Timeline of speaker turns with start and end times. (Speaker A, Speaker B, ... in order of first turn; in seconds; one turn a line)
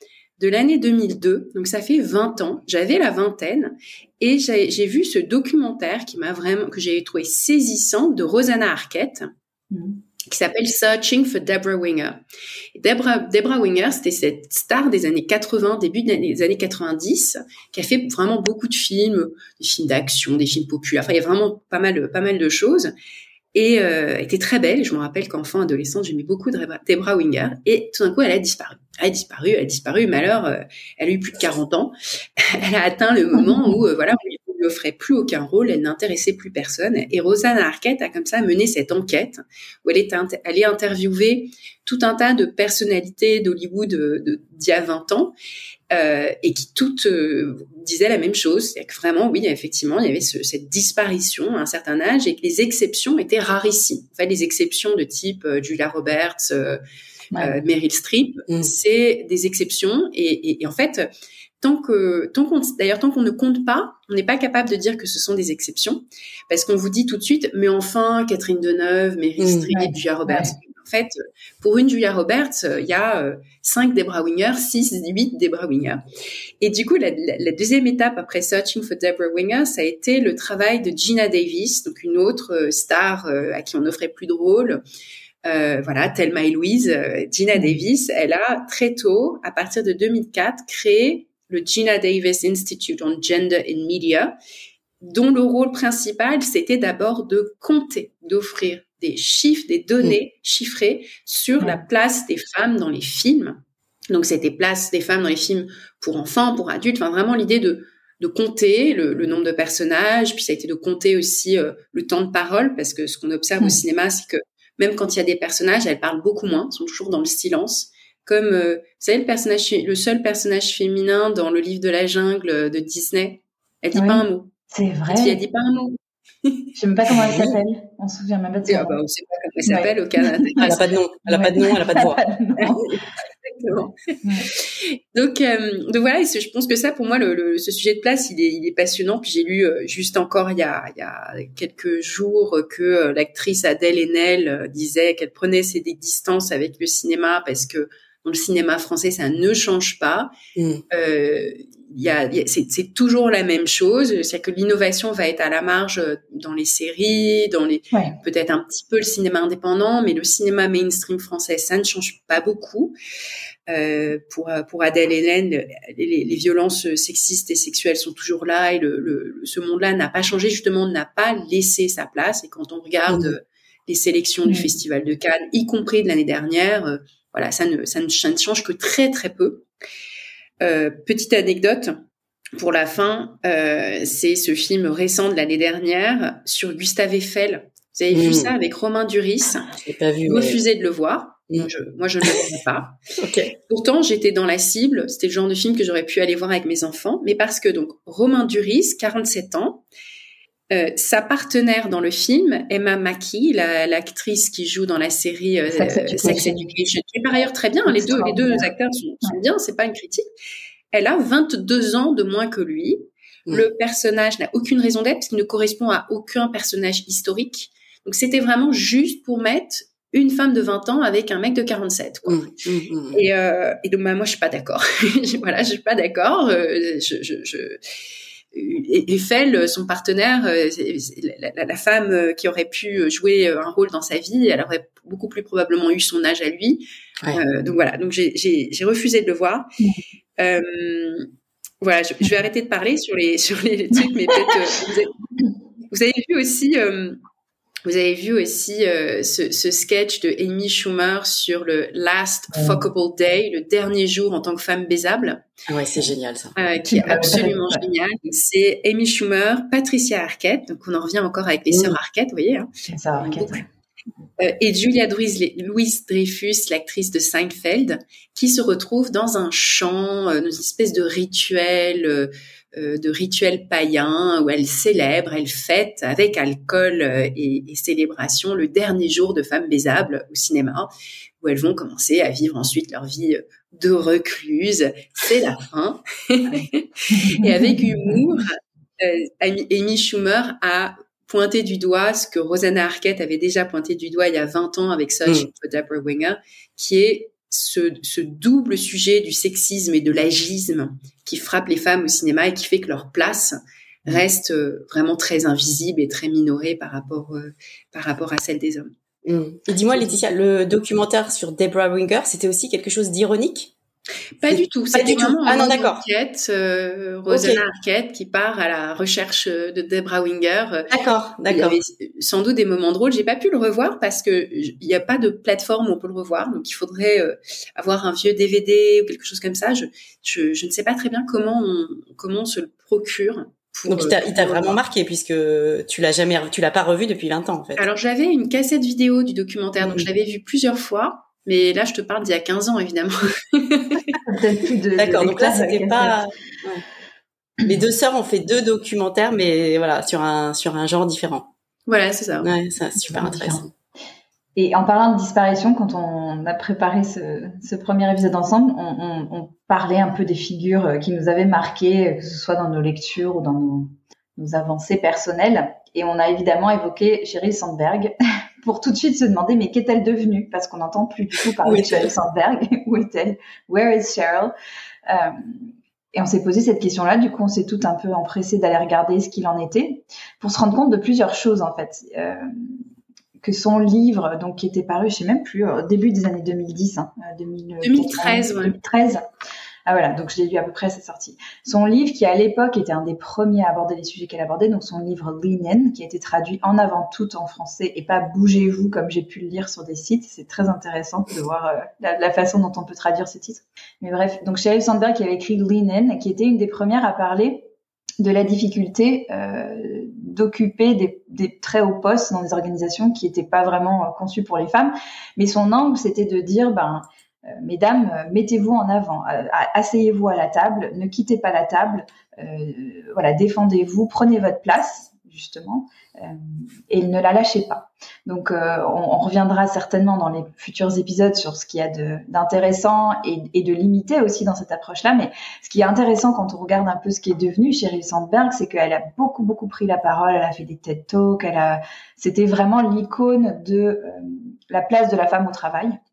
Speaker A: 0.4-9.3
Speaker B: 9.7-10.0
Speaker A: 10.3-12.2
Speaker A: 12.7-22.9
Speaker A: 23.5-45.3
Speaker B: 33.3-33.8
Speaker A: 45.9-56.8
Speaker A: 57.4-61.0
Speaker A: 61.6-76.0
Speaker C: 69.4-69.7
Speaker B: 69.7-70.5
Speaker A: 76.6-84.8
Speaker A: 85.5-94.3
Speaker B: 87.5-87.8
Speaker A: 95.0-124.5
Speaker B: 123.9-125.4
Speaker A: 125.1-126.7
Speaker B: 126.8-129.0
Speaker C: 127.2-127.6
Speaker A: 128.7-130.8
Speaker B: 129.7-130.7
Speaker C: 130.6-132.2
Speaker B: 131.2-132.9
Speaker A: 132.6-150.3
Speaker B: 134.2-134.5
Speaker C: 150.6-150.8
Speaker A: 150.9-162.9
Speaker A: 163.7-179.7
Speaker C: 173.1-173.3
Speaker A: 180.6-182.0
Speaker A: 182.6-189.7
Speaker C: 188.1-188.5
Speaker C: 189.7-190.6
Speaker A: 190.2-193.0
Speaker C: 193.2-193.5
Speaker A: 193.7-199.8
Speaker A: 200.7-210.2
Speaker B: 205.7-206.7
Speaker B: 207.8-208.7
Speaker A: 210.9-222.5
Speaker C: 222.3-223.2
Speaker A: 223.1-227.8
Speaker A: 228.5-239.7
Speaker A: 240.4-241.3
Speaker A: 241.8-245.2
Speaker A: 245.9-247.2
Speaker A: 247.8-255.4
Speaker B: 252.5-252.8
Speaker C: 255.7-256.5
Speaker A: 256.6-263.6
Speaker B: 256.9-257.8
Speaker C: 261.7-262.0
Speaker B: 262.9-263.6
Speaker A: 264.4-280.9
Speaker A: 281.4-308.9
Speaker B: 287.1-288.2
Speaker C: 309.2-313.7
Speaker A: 314.4-320.9
Speaker C: 314.5-316.0
Speaker C: 317.3-317.6
Speaker C: 320.9-321.8
Speaker A: 321.4-334.8
Speaker C: 333.9-337.9
Speaker A: 337.8-344.1
Speaker B: 344.2-346.2
Speaker C: 345.0-346.8
Speaker C: 347.6-351.5
Speaker A: 351.9-352.5
Speaker C: 352.4-353.7
Speaker B: 353.0-353.6
Speaker B: 354.6-374.5
Speaker C: 371.6-372.1
Speaker B: 375.1-375.6
Speaker B: 376.1-382.8
Speaker B: 383.4-389.2
Speaker A: 387.8-388.8
Speaker B: 389.9-445.9